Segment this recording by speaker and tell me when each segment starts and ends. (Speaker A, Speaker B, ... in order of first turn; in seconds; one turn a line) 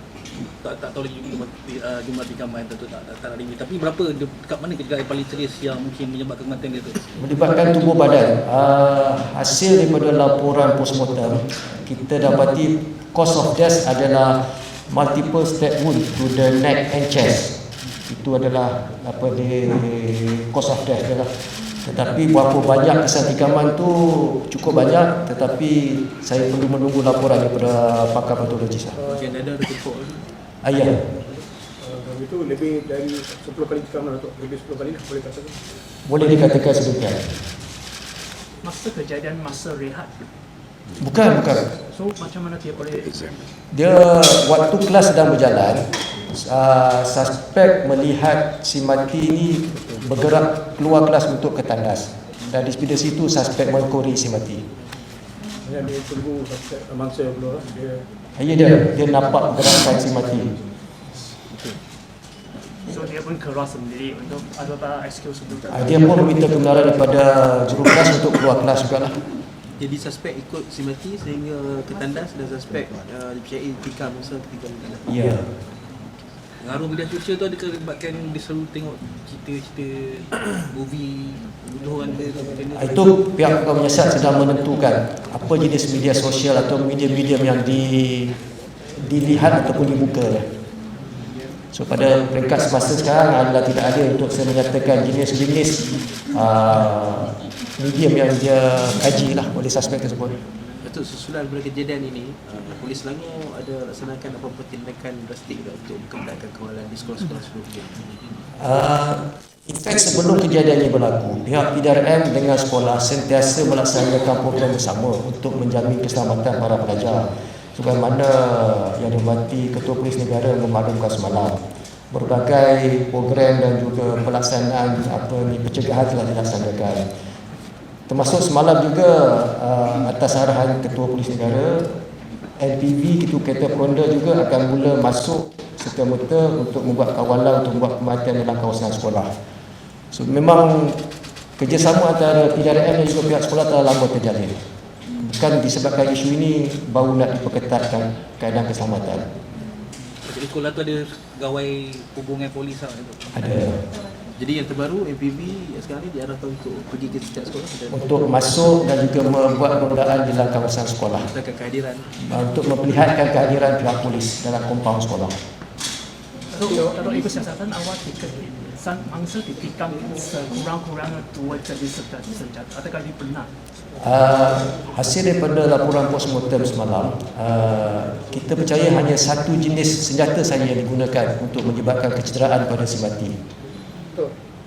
Speaker A: 0.4-7.1
Speaker B: 7.2-29.0
Speaker C: 29.0-30.2
Speaker D: 29.1-29.3
Speaker B: 30.6-31.1
Speaker D: 31.2-35.6
Speaker B: 36.1-37.4
Speaker E: 38.6-40.3
Speaker B: 41.0-41.7
Speaker E: 41.8-43.3
Speaker B: 43.7-54.7
Speaker D: 55.6-58.1
Speaker B: 58.4-60.6
Speaker C: 61.5-61.8
Speaker E: 62.8-66.0
Speaker B: 65.7-69.2
Speaker C: 69.8-75.2
Speaker B: 75.1-75.5
Speaker A: 76.6-83.0
Speaker B: 82.7-88.4
Speaker B: 89.0-90.5
Speaker B: 91.7-100.4
Speaker C: 100.8-108.1
Speaker B: 108.6-127.1
Speaker B: 128.1-132.0
Speaker B: 132.6-139.3
Speaker B: 140.1-141.0
Speaker B: 141.6-144.6
Speaker B: 145.2-149.3
Speaker A: 150.2-153.3
Speaker B: 153.3-153.8
Speaker C: 154.3-158.3
Speaker B: 157.9-161.3
Speaker C: 161.2-162.1
Speaker B: 162.2-165.4
Speaker E: 166.5-173.5
Speaker B: 174.0-183.4